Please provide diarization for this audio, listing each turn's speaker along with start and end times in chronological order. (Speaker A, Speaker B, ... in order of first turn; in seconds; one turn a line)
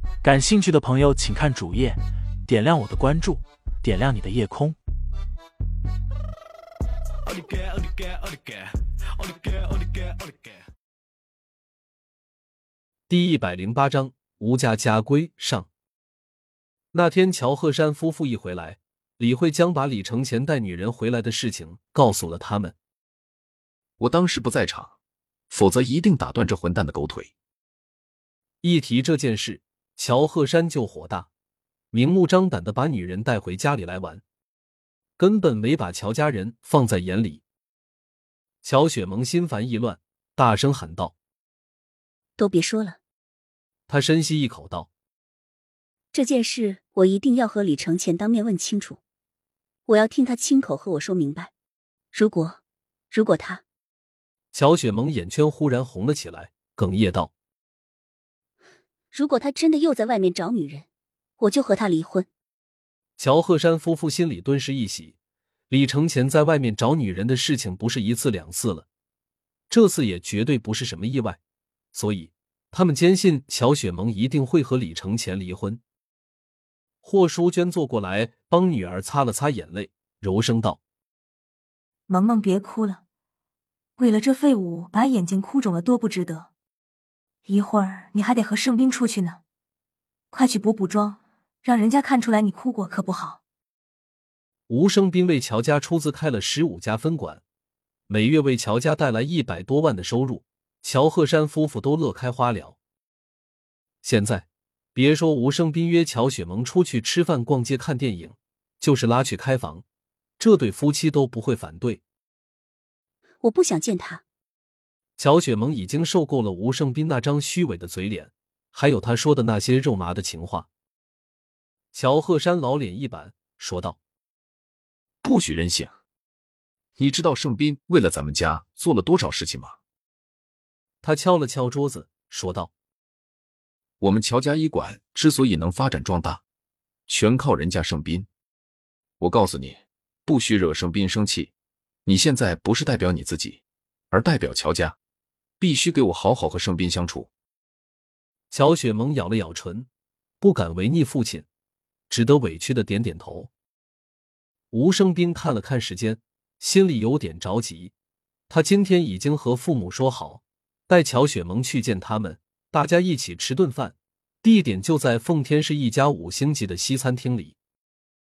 Speaker A: 0.2-4.8
Speaker B: 13.1-15.7
Speaker B: 16.9-22.8
Speaker C: 24.0-24.9
Speaker C: 25.5-27.3
Speaker B: 28.6-31.3
Speaker B: 31.9-34.2
Speaker B: 35.2-37.4
Speaker B: 38.6-41.1
Speaker D: 42.4-43.0
Speaker B: 43.9-44.9
Speaker D: 46.1-49.0
Speaker D: 49.9-51.5
Speaker D: 52.1-52.6
Speaker D: 53.1-53.6
Speaker B: 54.5-57.3
Speaker D: 59.1-60.9
Speaker D: 61.4-62.3
Speaker B: 63.2-65.2
Speaker B: 65.7-68.9
Speaker B: 69.7-71.4
Speaker B: 71.9-75.8
Speaker B: 77.0-80.8
Speaker E: 82.1-83.0
Speaker E: 84.0-86.5
Speaker E: 87.5-89.4
Speaker E: 90.3-93.4
Speaker B: 94.7-97.4
Speaker B: 98.1-102.8
Speaker B: 104.0-109.8
Speaker B: 110.4-112.0
Speaker D: 113.4-114.2
Speaker B: 115.2-120.7
Speaker B: 121.9-124.0
Speaker C: 125.2-126.0
Speaker C: 127.0-129.8
Speaker B: 131.0-132.7
Speaker C: 134.0-136.4
Speaker C: 137.1-138.3
Speaker C: 139.2-141.5
Speaker C: 142.1-145.0
Speaker C: 145.6-147.3
Speaker B: 148.5-149.9
Speaker B: 150.4-151.5
Speaker B: 152.1-153.5
Speaker B: 154.7-157.9
Speaker B: 158.5-167.6